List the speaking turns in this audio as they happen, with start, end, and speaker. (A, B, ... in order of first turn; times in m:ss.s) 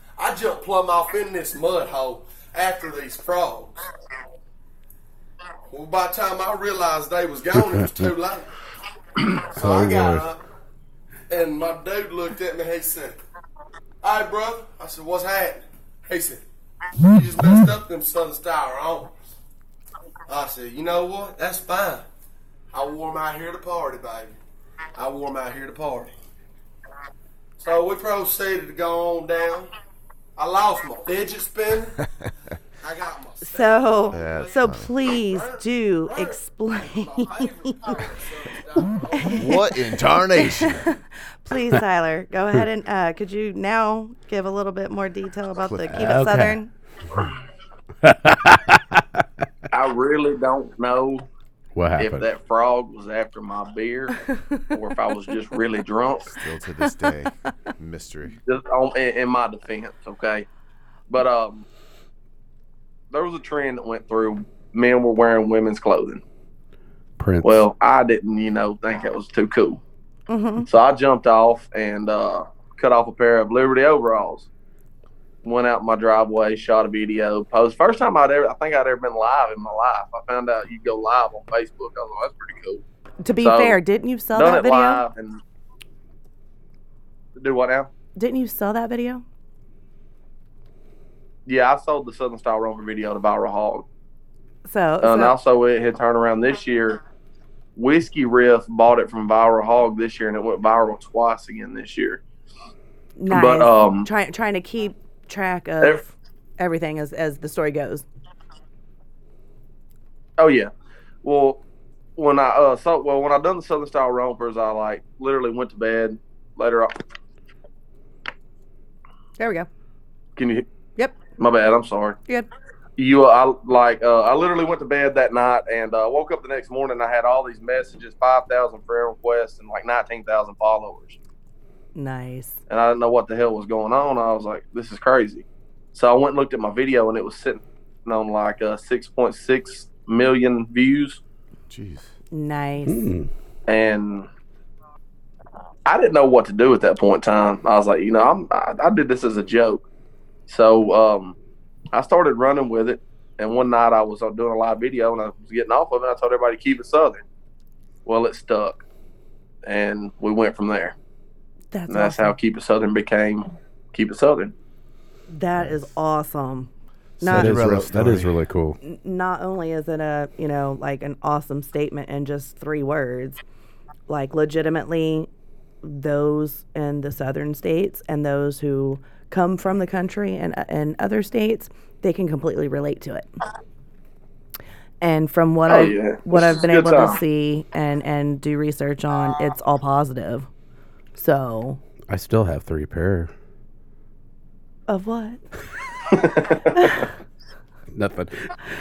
0:00.2-0:03.8 A
0:05.7-0:08.5 A
0:07.7-0:08.1 B
0:09.4-0:10.3 B
0:09.5-0:10.4 A
0:11.3-0:13.2 A
0:14.0-0:16.4 A
0:17.0-0:19.4 A
0:20.3-0:22.0 A
0:22.7-0:24.4 A
0:25.0-0:26.1 A
0:27.6-0:29.7 A
0:30.4-0:32.0 A
0:32.8-0:39.5 A
0:33.4-0:38.1 C
0:34.1-0:34.9 D
0:39.1-0:39.6 C
0:39.3-0:40.9 D
0:40.4-0:46.7 C
0:45.6-0:46.0 D
0:45.9-0:46.6 B
0:48.0-0:49.0 B
0:49.7-0:51.3 E
0:51.8-0:52.3 B
0:52.0-0:56.4 E
0:56.4-0:58.4 D
0:58.4-1:00.5 E
1:01.1-1:01.7 E
1:03.1-1:06.2 E
1:07.2-1:07.6 B
1:07.4-1:09.8 E
1:10.3-1:10.7 C
1:10.7-1:14.5 E
1:15.4-1:22.8 E
1:23.2-1:25.0 C
1:23.4-1:23.8 E
1:24.3-1:25.4 E
1:27.4-1:27.9 E
1:28.2-1:29.2 C
1:31.5-1:33.8 E
1:34.7-1:35.4 C
1:35.0-1:37.0 E
1:37.8-1:42.2 E
1:43.2-1:48.1 C
1:43.3-1:44.1 E
1:50.4-1:50.7 E
1:51.2-1:51.6 E
1:52.2-1:57.0 E
1:59.4-1:59.7 C
2:00.4-2:00.7 E
2:01.4-2:02.2 E
2:03.0-2:11.2 E
2:12.0-2:12.6 C
2:12.7-2:21.2 E
2:21.7-2:22.1 D
2:22.3-2:23.1 C
2:22.9-2:23.3 B
2:23.7-2:24.3 E
2:25.9-2:29.9 E
2:30.5-2:31.4 E
2:31.9-2:37.2 E
2:38.1-2:38.8 E
2:39.6-2:41.0 E
2:41.7-2:42.4 C
2:41.9-2:44.5 E
2:45.3-2:47.6 C
2:47.2-2:48.4 D
2:47.3-2:48.8 B
2:48.8-2:53.4 C
2:54.1-2:55.3 C
2:55.8-3:03.3 C
3:05.0-3:10.5 C
3:05.7-3:07.2 E
3:11.2-3:11.8 C
3:12.1-3:13.3 B
3:14.9-3:15.4 C
3:16.1-3:16.8 E
3:16.8-3:17.0 C
3:18.0-3:18.5 B